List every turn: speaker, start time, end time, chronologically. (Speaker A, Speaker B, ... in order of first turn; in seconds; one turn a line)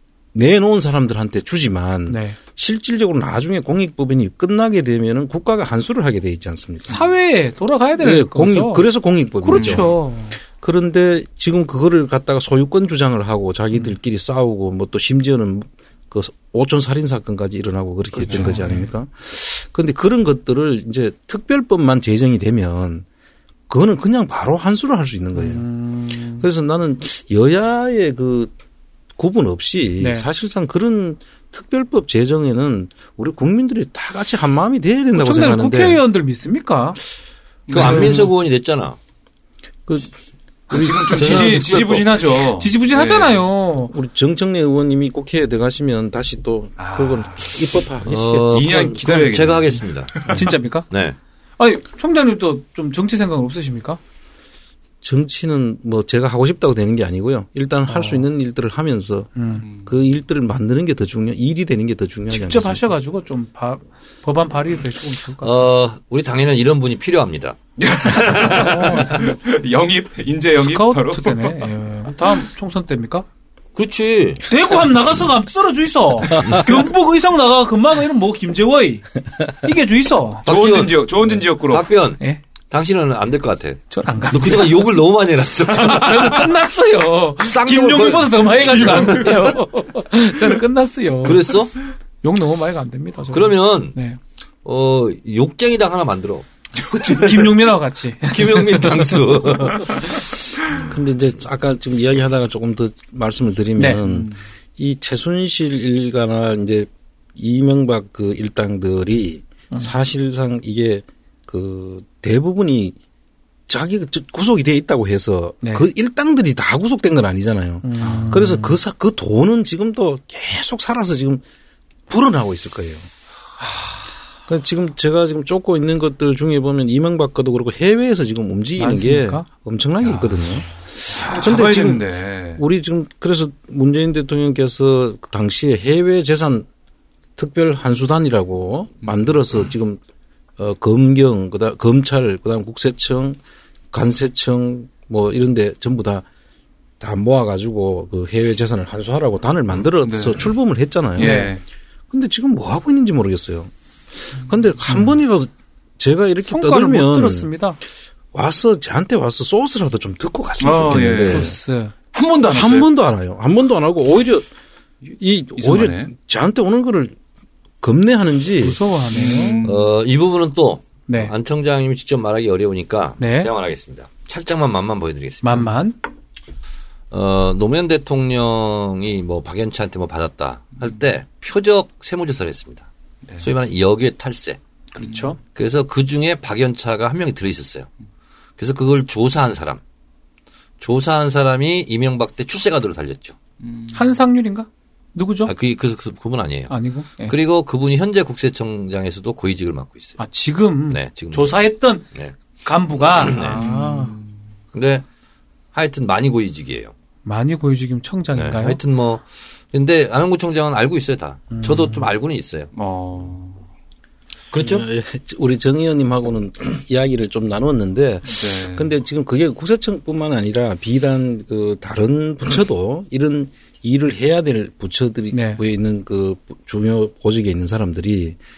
Speaker A: 0.3-7.0
Speaker B: 2.1-2.4
Speaker B: 6.9-8.9
Speaker A: 8.0-9.9
Speaker B: 9.4-10.4
Speaker C: 9.5-9.9
Speaker A: 10.6-23.0
Speaker C: 18.2-18.6
Speaker B: 18.2-18.9
Speaker A: 23.7-25.6
Speaker B: 25.3-26.4
Speaker A: 26.4-28.5
Speaker A: 29.2-36.0
Speaker B: 30.0-30.3
Speaker B: 35.1-37.0
Speaker C: 37.7-38.3
Speaker D: 37.7-39.0
Speaker A: 37.8-38.1
Speaker B: 37.8-38.2
Speaker A: 40.7-42.0
Speaker C: 40.7-43.4
Speaker D: 41.1-42.0
Speaker B: 42.5-43.9
Speaker A: 43.9-48.7
Speaker C: 46.8-47.5
Speaker D: 48.1-50.4
Speaker C: 48.5-50.5
Speaker B: 50.3-50.9
Speaker D: 50.9-51.2
Speaker B: 51.6-54.0
Speaker A: 55.0-59.3
Speaker B: 57.9-58.2
Speaker B: 59.4-59.6
Speaker C: 59.6-59.9
Speaker A: 59.8-62.9
Speaker B: 62.3-65.7
Speaker D: 65.4-69.2
Speaker C: 67.8-71.7
Speaker B: 68.5-69.3
Speaker B: 70.6-73.2
Speaker D: 73.7-74.4
Speaker B: 74.5-80.5
Speaker D: 80.4-81.1
Speaker C: 80.4-81.9
Speaker D: 81.7-86.6
Speaker B: 83.9-85.0
Speaker B: 85.7-91.6
Speaker D: 87.4-89.6
Speaker D: 91.2-91.8
Speaker B: 92.2-94.2
Speaker D: 93.3-93.9
Speaker D: 94.6-96.5
Speaker C: 96.8-97.5
Speaker B: 96.9-100.1
Speaker D: 98.2-100.1
Speaker A: 100.8-113.0
Speaker B: 103.8-104.0
Speaker C: 104.1-104.3
Speaker A: 113.7-121.4
Speaker B: 115.6-115.9
Speaker B: 117.8-118.8
Speaker C: 118.0-118.4
Speaker A: 122.1-123.1
Speaker A: 124.5-136.7
Speaker B: 128.8-129.4
Speaker C: 130.1-130.3
Speaker C: 131.1-132.6
Speaker A: 137.4-140.0
Speaker A: 140.6-143.4
Speaker A: 143.9-146.2
Speaker A: 147.0-151.5
Speaker C: 150.0-150.5
Speaker C: 151.1-151.6
Speaker B: 151.2-151.5
Speaker A: 152.1-153.7
Speaker A: 154.3-157.5
Speaker B: 156.4-157.8
Speaker A: 158.3-161.6
Speaker C: 160.6-161.6
Speaker B: 161.3-161.9
Speaker C: 162.1-162.9
Speaker A: 162.5-164.5
Speaker A: 165.2-167.2
Speaker C: 165.6-166.1
Speaker A: 167.8-168.8
Speaker B: 168.6-169.7
Speaker C: 169.1-169.9
Speaker D: 169.6-175.7
Speaker B: 171.1-171.3
Speaker B: 173.2-173.5
Speaker B: 175.4-176.0
Speaker D: 177.1-182.9
Speaker D: 183.4-184.6
Speaker B: 184.9-185.4
Speaker C: 185.0-185.3
Speaker D: 185.5-187.9
Speaker D: 188.6-189.8
Speaker D: 190.8-193.4
Speaker C: 193.6-194.1
Speaker B: 193.9-195.5
Speaker D: 195.4-200.2
Speaker B: 196.7-197.3
Speaker B: 200.2-202.1
Speaker D: 200.9-201.6
Speaker B: 202.6-204.1
Speaker D: 203.1-203.6
Speaker C: 203.4-204.3
Speaker D: 204.7-205.0
Speaker D: 205.7-206.9
Speaker B: 207.2-208.8
Speaker D: 208.3-212.7
Speaker B: 211.5-212.1
Speaker C: 212.7-213.6
Speaker D: 214.5-214.8
Speaker A: 214.6-228.4
Speaker C: 218.3-218.9
Speaker B: 225.3-225.6